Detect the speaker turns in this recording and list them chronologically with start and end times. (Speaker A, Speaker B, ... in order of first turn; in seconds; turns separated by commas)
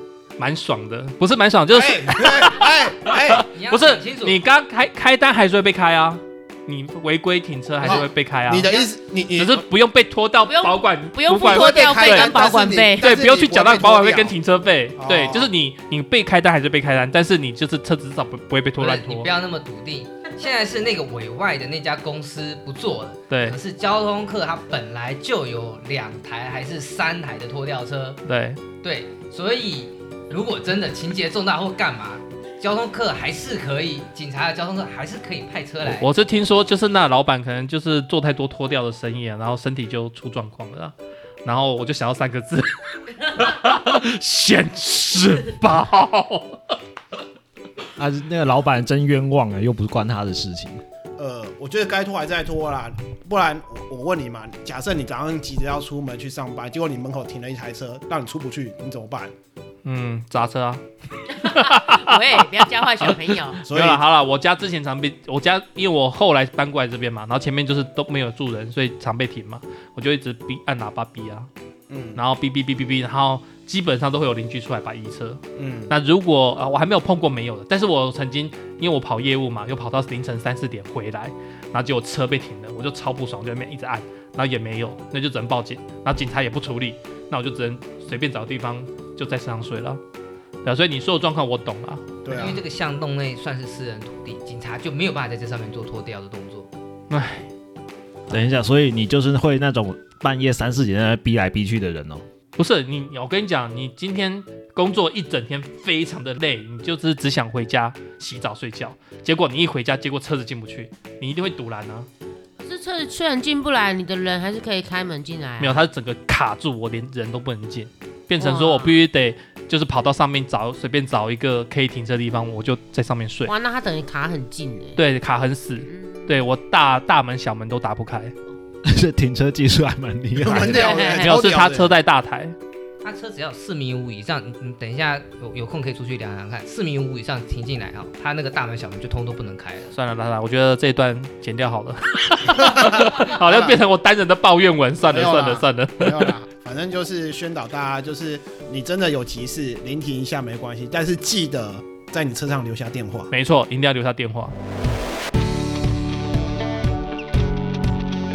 Speaker A: 0.4-8.7, Speaker B: 1.7-3.5, Speaker C: 3.5-4.4, Speaker B: 7.8-9.6, Speaker A: 9.4-12.4, Speaker D: 10.4-13.1, Speaker B: 11.4-14.3, Speaker A: 13.0-19.3, Speaker B: 15.0-15.5, Speaker C: 18.8-28.2, Speaker A: 23.3-23.6, Speaker A: 28.2-28.6, Speaker C: 28.8-36.1, Speaker A: 35.8-40.9, Speaker A: 41.4-46.8, Speaker E: 48.0-50.8, Speaker B: 51.2-59.3, Speaker A: 59.8-60.8, Speaker D: 61.3-63.6, Speaker A: 61.4-71.5, Speaker B: 63.6-64.0, Speaker B: 71.9-72.2, Speaker A: 72.1-90.0, Speaker B: 75.6-75.9, Speaker A: 90.6-92.2, Speaker B: 92.2-92.6, Speaker C: 92.3-96.7, Speaker A: 97.1-97.5, Speaker E: 98.3-102.2, Speaker A: 102.6-112.1, Speaker D: 112.6-115.8, Speaker A: 115.6-123.5, Speaker D: 118.4-119.0, Speaker D: 123.5-125.0, Speaker A: 125.0-128.3, Speaker D: 125.9-126.3, Speaker E: 128.8-130.9, Speaker B: 130.4-131.9, Speaker D: 130.7-131.3, Speaker A: 131.0-132.6, Speaker C: 133.0-139.9, Speaker A: 139.9-146.3, Speaker B: 142.6-143.8, Speaker B: 145.1-153.3, Speaker A: 153.3-154.5